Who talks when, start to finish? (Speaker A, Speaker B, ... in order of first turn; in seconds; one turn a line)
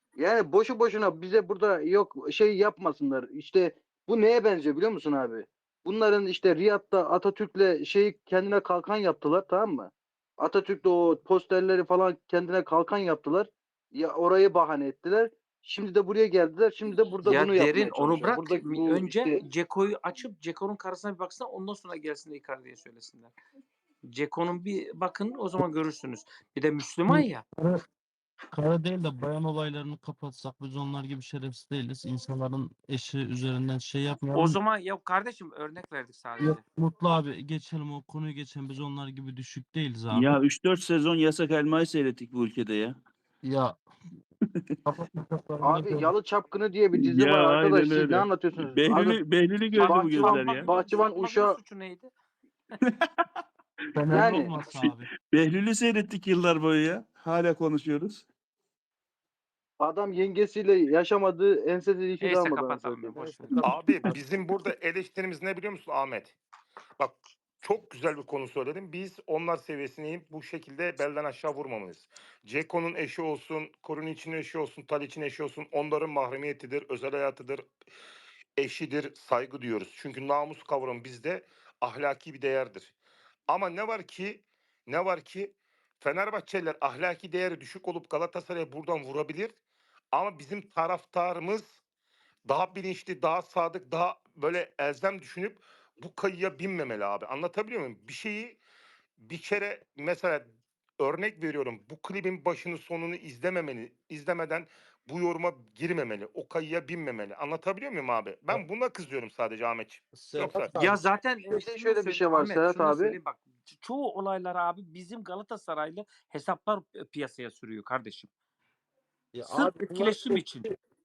Speaker A: 0.2-19.4
Speaker B: 17.2-23.3
Speaker B: 24.0-27.4
Speaker C: 27.1-27.8
Speaker C: 28.5-34.6
Speaker B: 34.3-36.6
Speaker C: 36.4-40.3
Speaker D: 40.1-43.0
Speaker C: 43.4-43.7
Speaker C: 44.8-46.1
Speaker A: 45.6-49.2
Speaker D: 46.9-50.7
Speaker B: 49.7-52.1
Speaker A: 49.9-51.6
Speaker C: 53.9-55.1
Speaker D: 54.0-58.2
Speaker A: 54.1-54.5
Speaker A: 59.8-63.6
Speaker B: 62.2-63.6
Speaker E: 63.6-66.4
Speaker E: 67.0-77.7
Speaker E: 78.6-83.0
Speaker E: 83.5-89.6
Speaker E: 90.1-91.8
Speaker E: 92.5-98.6
Speaker E: 99.2-100.5
Speaker E: 101.0-110.8
Speaker C: 110.1-111.0
Speaker B: 110.7-118.3
Speaker A: 111.5-113.2
Speaker C: 119.3-120.8
Speaker B: 119.5-120.7